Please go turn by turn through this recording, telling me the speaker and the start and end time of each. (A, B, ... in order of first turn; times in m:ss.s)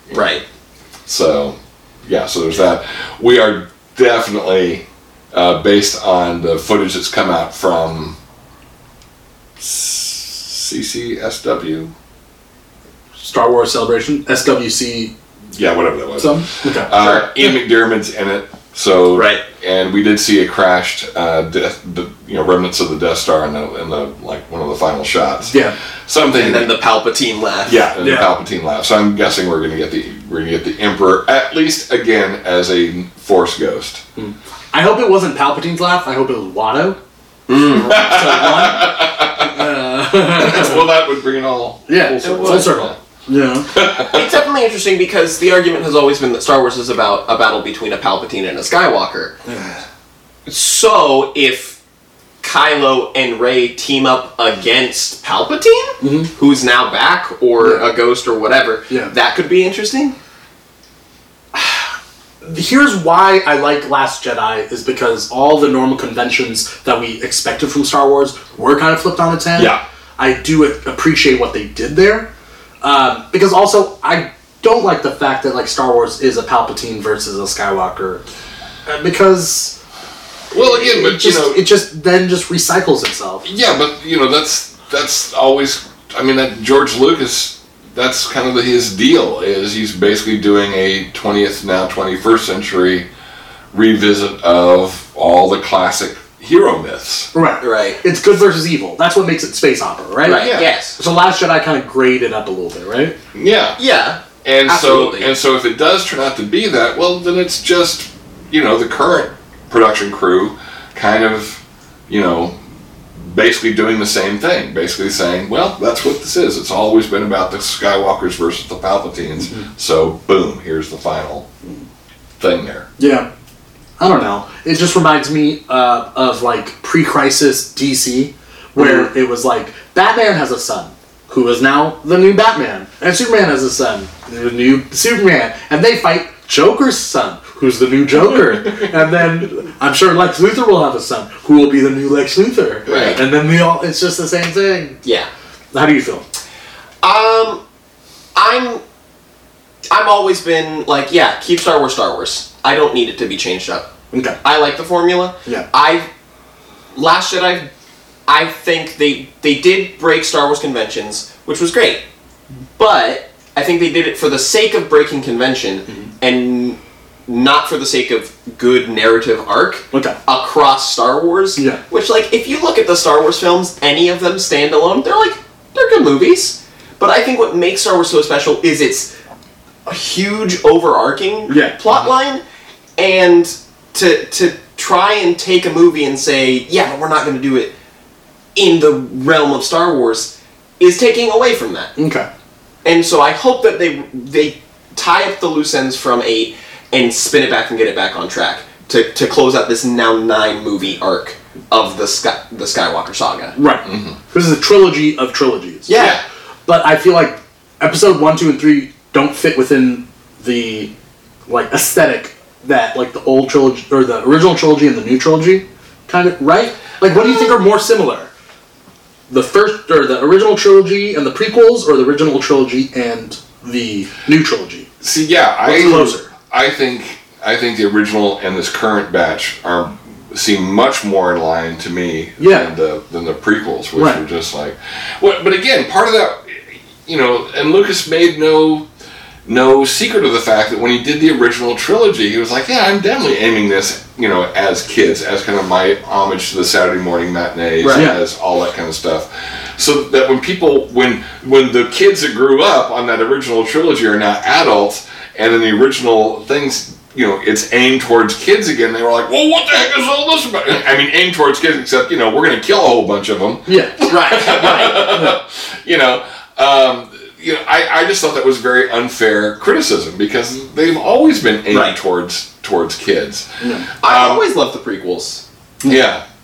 0:00.1-0:00.4 A
0:01.0-0:08.2 B
0:09.6-0:11.9 B
0:13.2-0:15.1 C
0:15.5-0:26.7 B
0:16.2-0:16.9 C
0:16.9-0:17.5 A
0:19.1-0:19.4 A
0:25.5-0:25.8 C
0:26.3-0:27.8 A
0:27.6-0:34.0 B
0:28.0-0:28.3 C
0:34.2-0:37.0 C
0:37.5-0:38.2 A
0:37.8-0:43.0 B
0:37.8-0:40.9 C
0:41.9-0:43.7 C
0:42.2-0:42.9 A
0:43.7-0:44.4 B
0:44.0-0:49.3 A
0:49.4-0:49.8 C
0:50.4-0:51.8 A
0:52.4-1:00.1 A
0:56.0-0:56.3 C
0:57.6-0:57.9 C
0:58.9-0:59.1 C
1:01.5-1:01.9 C
1:02.4-1:12.3 C
1:09.6-1:09.8 B
1:12.8-1:18.2 C
1:18.8-1:19.8 C
1:20.5-1:21.6 B
1:20.5-1:23.5 C
1:23.4-1:33.0 B
1:33.7-1:37.3 B
1:37.3-1:43.2 C
1:37.6-1:38.0 A
1:40.2-1:41.0 A
1:40.4-1:40.7 B
1:43.3-1:43.8 B
1:43.8-1:45.3 A
1:44.4-1:52.6 B
1:53.2-2:01.5 B
2:02.4-2:02.9 B
2:03.0-2:03.3 C
2:04.0-2:25.0 C
2:18.2-2:18.9 B
2:22.8-2:23.2 B
2:22.8-2:23.2 A
2:25.0-2:25.3 A
2:25.7-2:26.2 C
2:27.0-2:27.6 A
2:28.3-2:28.8 A
2:29.9-2:33.9 A
2:34.1-2:34.4 C
2:34.4-2:36.1 A
2:36.9-2:37.7 A
2:38.2-2:42.0 A
2:42.8-2:59.1 A
2:49.9-2:50.2 C
2:51.6-2:51.8 C
2:59.8-3:02.4 A
3:01.5-3:01.8 C
3:03.0-3:07.7 A
3:08.5-3:11.9 A
3:12.0-3:12.3 C
3:12.8-3:23.5 A
3:23.5-3:26.0 C
3:23.8-3:24.2 B
3:25.9-3:26.2 A
3:25.9-3:26.2 B
3:26.6-3:30.9 C
3:31.5-3:38.3 C
3:39.3-3:44.9 C
3:45.0-3:58.8 B
3:45.6-3:46.3 C
3:52.4-3:52.7 C
3:53.9-3:54.2 C
3:59.4-4:34.4 B
4:07.8-4:08.1 A
4:23.6-4:24.0 C
4:24.1-4:25.2 A
4:25.1-4:25.4 C
4:31.7-4:32.0 A
4:33.6-4:33.9 C
4:34.0-4:35.4 A
4:35.8-4:36.2 B